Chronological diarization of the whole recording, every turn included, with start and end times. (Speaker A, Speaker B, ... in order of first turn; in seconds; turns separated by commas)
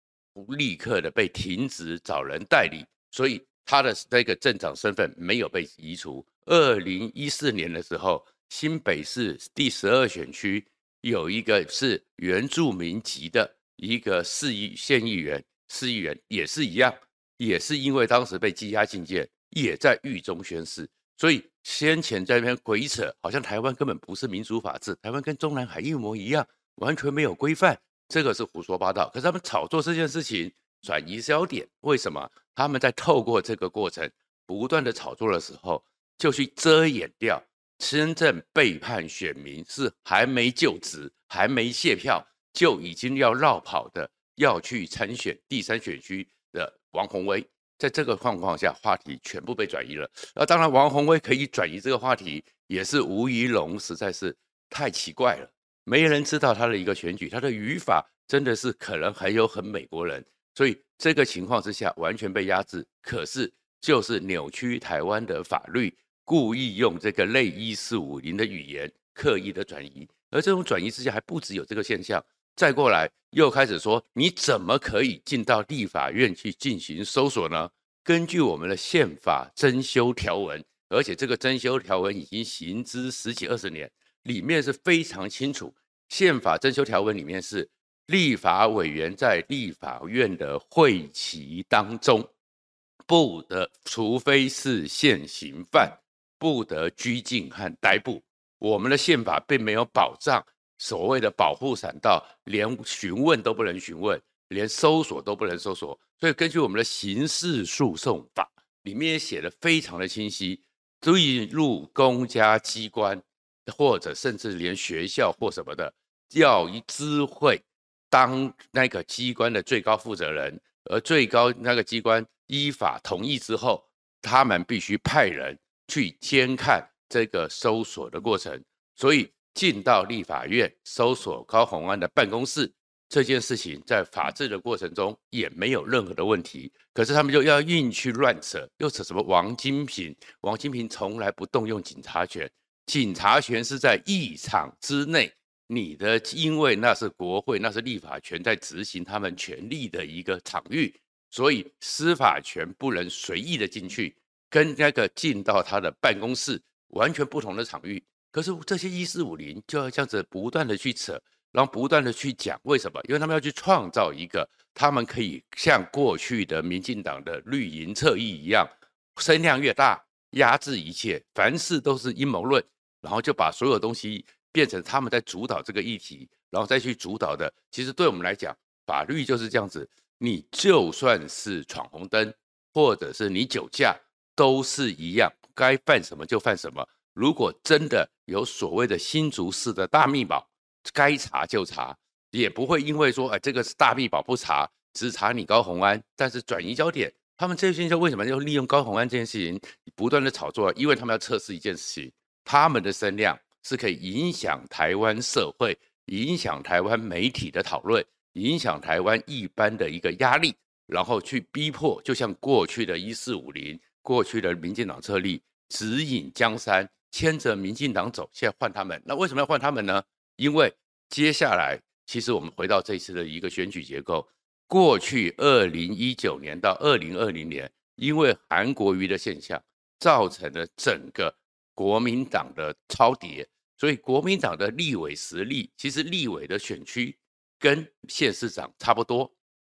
Speaker A: 0.3-92.3, Speaker A: 93.1-239.3